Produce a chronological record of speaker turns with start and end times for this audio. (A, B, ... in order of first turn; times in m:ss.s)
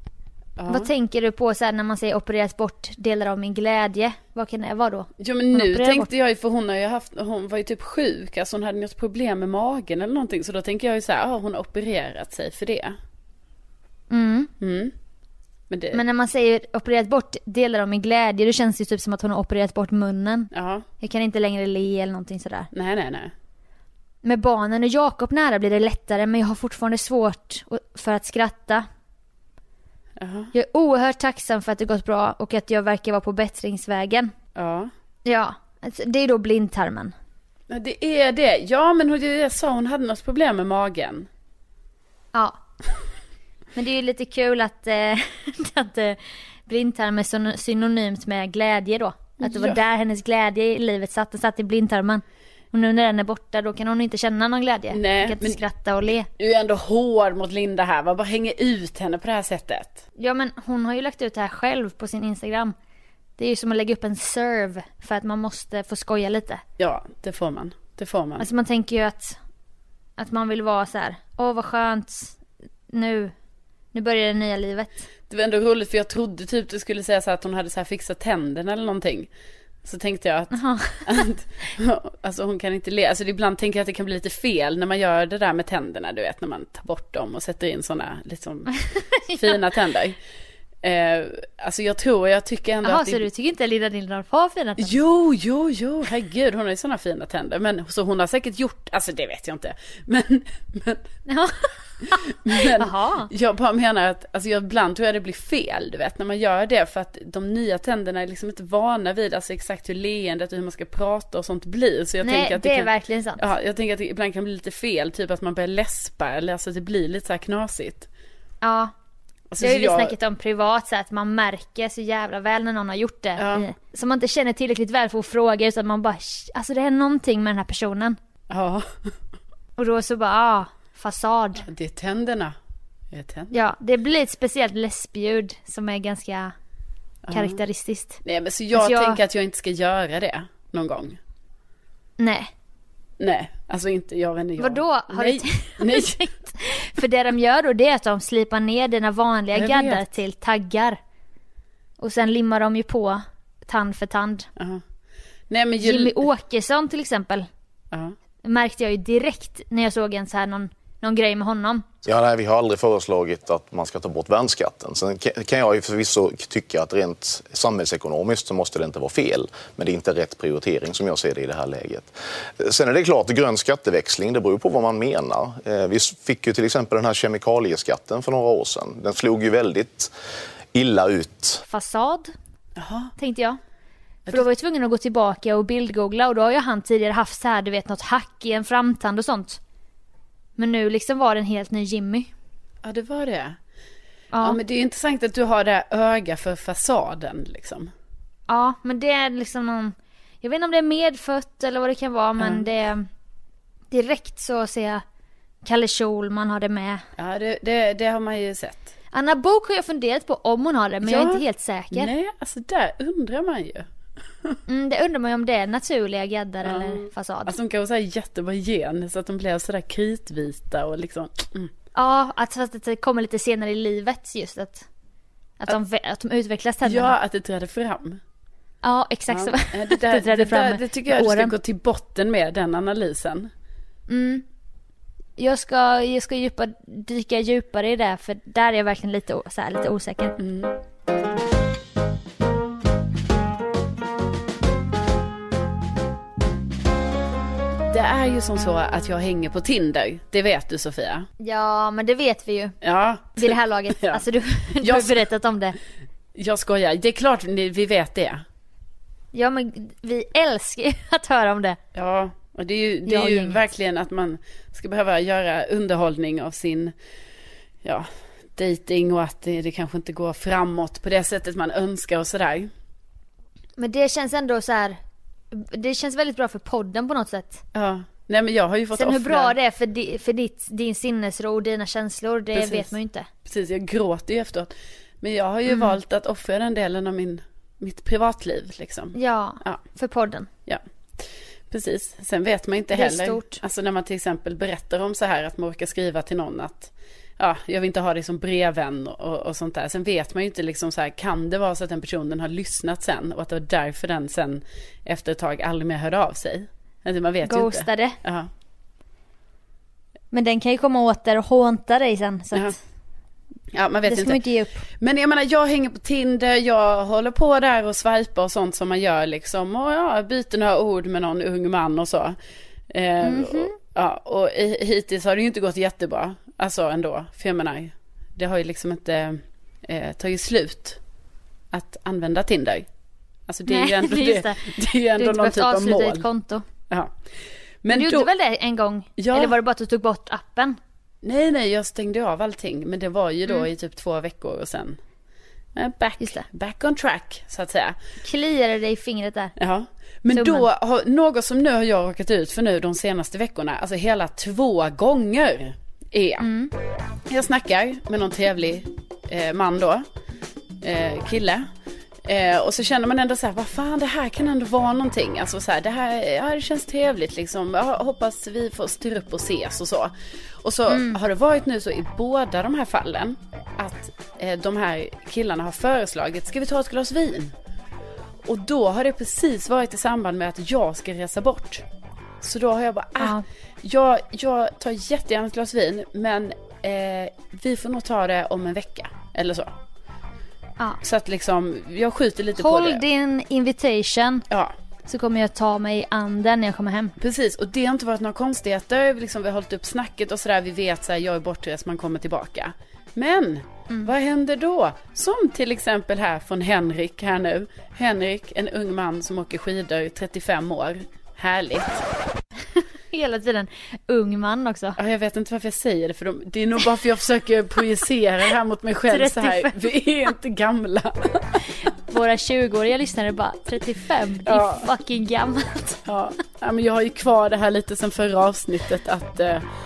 0:00.6-0:00.9 A
0:00.7-0:06.1 B
0:05.2-0:12.9 A
0:14.1-0:14.5 B
0:14.6-0:14.9 A
0:15.7-0:16.0 A
0:15.9-0:20.5 B
0:20.5-0:20.8 A
0:21.0-0:22.7 B
0:22.7-0:23.3 A
0:24.2-0:28.8 B
0:30.2-0:30.5 A
0:30.5-0:34.3 B
0:34.6-0:34.9 A
0:35.2-0:37.1 B
0:37.7-0:41.3 A
0:43.7-0:56.3 B
0:49.4-0:49.8 A
0:54.9-0:55.6 A
0:56.4-1:00.0 A
1:00.2-1:02.7 B
1:03.4-1:06.6 B
1:06.8-1:08.4 A
1:08.4-1:09.4 B
1:10.2-1:12.4 B
1:12.9-1:13.3 B
1:13.9-1:15.0 B
1:15.3-1:19.3 A
1:19.8-1:28.7 A
1:20.5-1:21.3 B
1:28.9-1:29.5 B
1:29.4-1:30.2 A
1:30.8-1:33.2 A
1:32.8-1:35.0 B
1:34.8-1:41.0 A
1:41.3-1:43.3 B
1:42.4-1:58.1 A
1:52.2-1:53.4 B
1:58.6-1:58.9 B
1:59.5-2:00.1 A
1:59.6-2:08.2 B
2:03.4-2:03.6 A
2:08.5-2:08.9 A
2:09.8-2:11.6 B
2:11.6-2:12.5 A
2:13.1-2:13.5 A
2:13.5-2:16.5 B
2:17.2-2:17.6 A
2:17.3-2:18.2 B
2:18.2-2:21.2 A
2:18.7-2:19.2 B
2:22.2-2:22.5 B
2:23.2-2:26.2 A
2:24.6-2:31.0 B
2:29.5-2:30.0 A
2:32.0-2:34.5 B
2:35.5-2:36.3 A
2:35.8-2:37.5 B
2:38.4-2:41.8 B
2:42.0-3:00.1 C
3:00.7-3:01.6 C
3:01.7-3:02.3 B
3:02.8-3:03.1 A
3:03.2-3:03.6 B
3:04.3-3:09.6 B
3:10.6-3:12.3 B
3:12.8-3:13.6 A
3:14.3-3:14.6 B
3:14.4-3:17.9 A
3:18.5-3:23.1 B
3:22.4-3:22.7 A
3:23.9-3:25.0 B
3:25.6-3:27.0 B
3:27.2-3:28.9 A
3:29.1-3:32.1 B
3:31.0-3:33.9 A
3:34.7-3:37.5 B
3:36.6-3:41.7 A
3:41.9-3:44.8 B
3:45.6-3:47.1 B
3:46.8-3:48.2 A
3:48.8-3:51.5 B
3:49.3-3:53.5 A
3:54.1-3:54.4 B
3:55.4-4:00.4 B
4:00.4-4:00.7 A
4:07.9-4:11.2 A
4:11.4-4:12.7 B
4:12.8-4:14.2 A
4:13.4-4:15.8 B
4:14.8-4:15.3 A
4:16.4-4:18.4 A
4:19.3-4:21.8 B
4:21.9-4:26.9 A
4:23.0-4:23.6 B
4:27.8-4:32.7 A
4:33.8-4:35.0 B
4:35.5-4:37.6 B
4:37.7-4:39.5 A
4:38.9-4:43.3 B
4:42.5-4:42.9 A
4:43.5-4:49.8 A
4:45.7-4:46.0 B
4:49.1-4:50.5 B
4:51.7-5:08.5 A
4:52.9-4:53.6 B
5:07.4-5:08.2 B
5:10.3-5:12.7 B
5:13.7-5:14.4 A
5:14.1-5:14.8 B
5:15.0-5:22.4 A
5:22.9-5:31.0 A
5:23.2-5:23.7 B
5:31.7-5:32.8 A
5:33.5-5:36.2 A
5:33.7-5:36.6 B
5:37.8-5:38.3 A
5:37.9-5:40.8 B
5:39.2-5:39.6 A
5:41.2-5:45.0 A
5:45.8-5:48.0 A
5:46.2-5:46.4 B
5:48.2-5:49.5 B
5:49.6-5:56.4 A
5:50.3-5:50.6 B
5:56.4-5:56.7 B
5:57.3-6:00.0 A
6:00.8-6:01.7 A
6:02.2-6:10.1 A
6:10.6-6:17.5 A
6:10.9-6:11.2 B
6:18.4-6:21.8 A
6:22.4-6:29.7 A
6:23.2-6:23.4 B
6:31.0-6:33.0 A
6:32.6-6:34.4 B
6:34.5-6:34.7 A
6:35.0-6:37.1 B
6:37.2-6:52.0 A
6:52.8-6:55.0 B
6:55.0-7:01.6 A
6:59.1-6:59.8 B
7:02.1-7:06.0 B
7:04.4-7:04.9 A
7:06.1-7:09.6 A